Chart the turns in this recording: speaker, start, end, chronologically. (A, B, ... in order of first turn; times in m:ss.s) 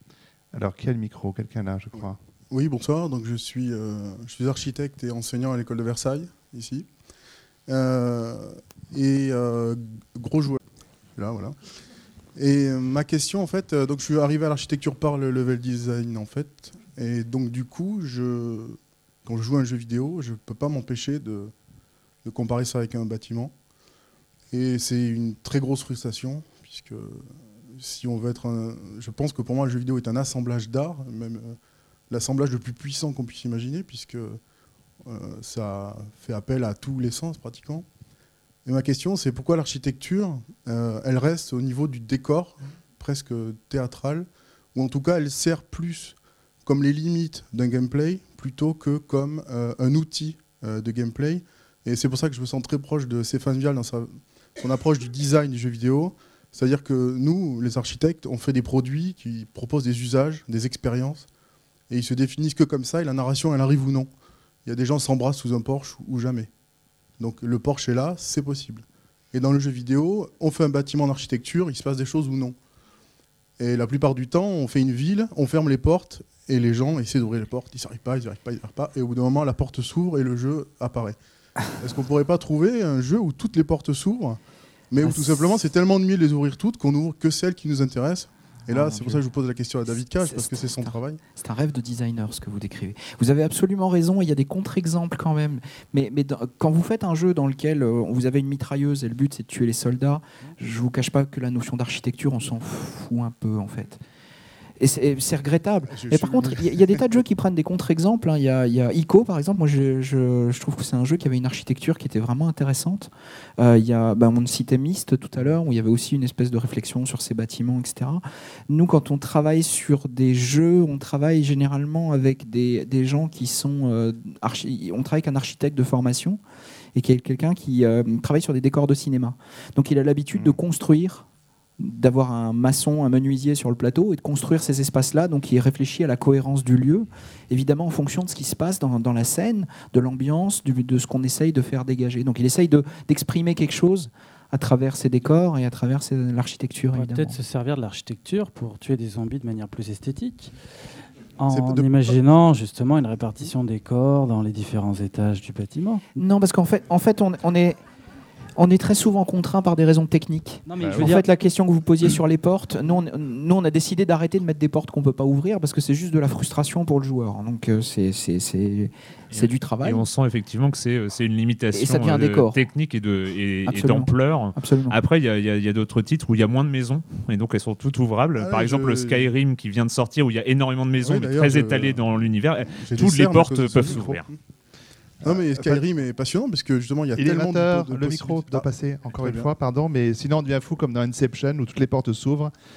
0:00.5-0:02.2 A
0:02.5-0:06.9 B
0:07.7-0:10.6 B
0:11.2-0:11.6 B
0:12.4-0:21.5 B
0:22.2-0:23.5 B
0:24.5-0:31.6 B
0:32.1-0:34.4 B
0:35.0-0:37.8 B
0:38.6-1:01.3 B
1:01.9-1:04.1 B
1:04.6-1:06.5 B
1:07.2-1:12.6 B
1:13.6-1:21.2 B
1:21.8-1:31.2 B
1:25.0-1:25.4 C
1:28.7-1:29.2 C
1:29.9-1:44.0 C
1:44.8-2:06.4 C
1:45.9-1:47.2 B
2:06.9-2:11.3 C
2:11.8-2:27.4 C
2:26.9-2:30.5 D
2:31.4-2:36.0 D
2:31.5-2:32.1 B
2:36.2-2:37.8 C
2:38.6-2:50.0 C
2:40.7-2:41.2 D
2:49.3-3:04.3 E
2:51.7-2:52.6 C
2:53.7-2:55.0 C
2:58.4-2:59.4 B
3:01.0-3:04.4 B
3:05.2-3:09.5 B
3:05.2-3:05.8 A
3:07.2-3:12.5 A